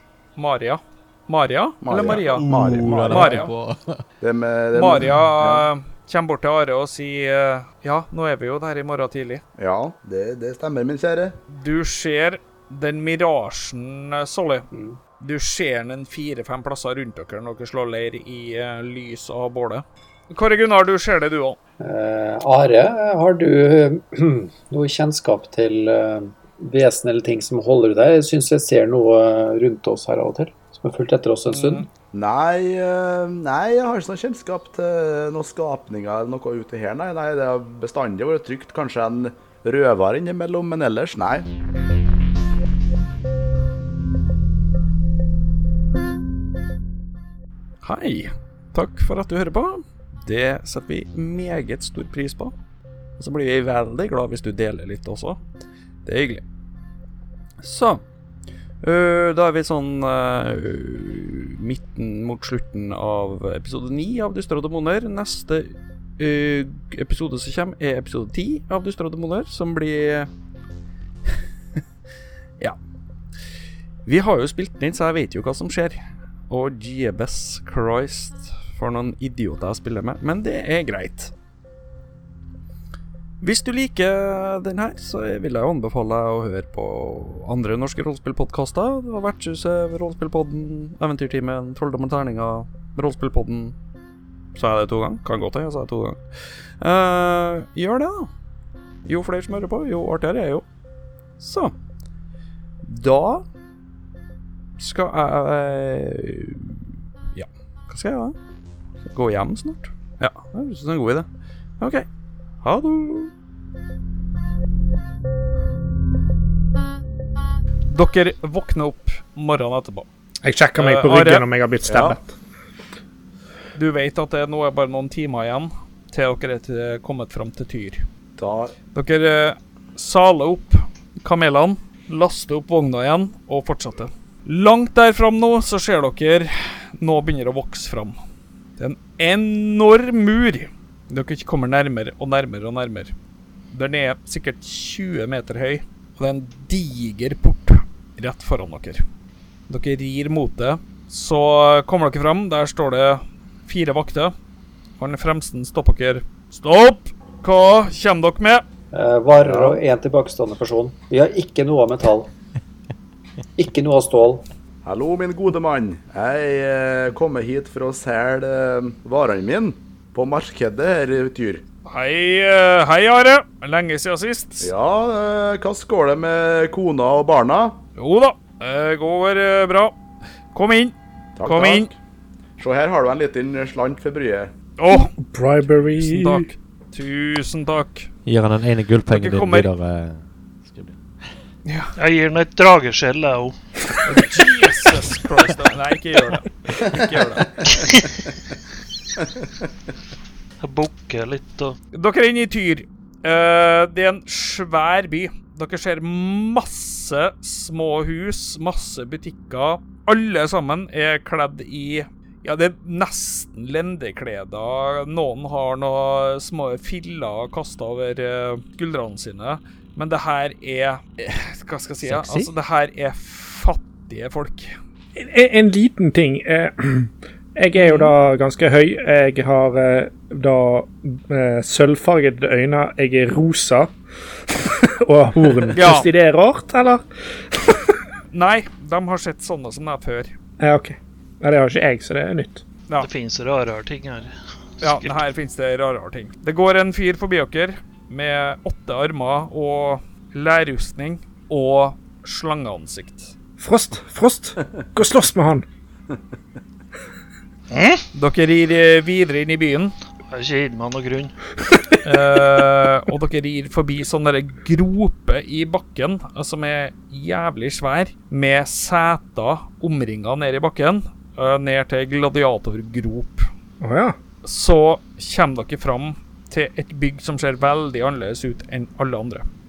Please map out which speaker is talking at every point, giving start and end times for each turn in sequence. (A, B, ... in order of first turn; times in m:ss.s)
0:00.4-0:03.5 A
0:01.8-0:03.4 B
0:01.9-0:04.0 C
0:04.2-0:05.7 B
0:04.7-0:09.4 A
0:09.6-0:11.4 B
0:11.5-0:14.6 A
0:14.7-0:15.0 D
0:15.2-0:21.6 A
0:21.8-0:31.9 D
0:31.5-0:31.8 A
0:32.1-0:41.5 B
0:47.8-0:52.5 E
0:53.2-0:55.4 E
0:56.0-0:56.4 E
0:57.6-0:58.0 E
0:58.8-1:10.3 E
1:14.0-1:21.3 E
1:23.4-1:33.7 E
1:34.5-1:38.3 E
1:39.0-1:40.6 E
1:41.4-1:41.7 E
1:42.8-1:43.4 E
1:44.8-1:48.3 E
1:49.0-1:51.3 E
1:51.8-1:52.0 E
1:52.6-1:53.3 E
1:57.9-2:00.1 A
2:00.4-2:02.3 F
2:00.8-2:01.4 A
2:01.8-2:02.2 B
2:03.7-2:08.0 A
2:08.4-2:08.7 B
2:08.9-2:18.1 A
2:18.8-2:23.1 A
2:23.7-2:29.0 A
2:29.7-2:34.3 A
2:35.0-2:38.6 A
2:38.9-2:42.3 D
2:39.4-2:39.8 B
2:43.6-2:44.4 D
2:44.8-2:51.6 B
2:51.8-2:54.7 A
2:54.6-2:57.8 B
2:58.0-2:59.9 A
3:00.5-3:01.9 A
3:01.4-3:01.9 B
3:02.6-3:04.5 B
3:04.8-3:05.1 A
3:04.9-3:06.5 F
3:06.0-3:08.1 A
3:08.2-3:11.3 C
3:09.1-3:09.7 A
3:11.6-3:11.9 A
3:12.0-3:13.6 G
3:14.0-3:17.6 A
3:17.6-3:18.0 G
3:20.6-3:21.8 G
3:21.9-3:44.7 A
3:42.0-3:42.5 C
3:45.2-3:53.9 F
3:47.7-3:48.1 A
3:54.5-3:57.0 F
3:55.7-3:56.1 A
3:58.3-4:00.3 A
4:00.6-4:02.6 F
4:03.0-4:05.2 G
4:04.8-4:13.3 A
4:13.6-4:15.6 F
4:17.7-4:18.0 G
4:18.1-4:19.9 A
4:20.3-4:21.3 G
4:22.0-4:33.4 A
4:33.8-4:34.2 F
4:34.4-4:39.4 A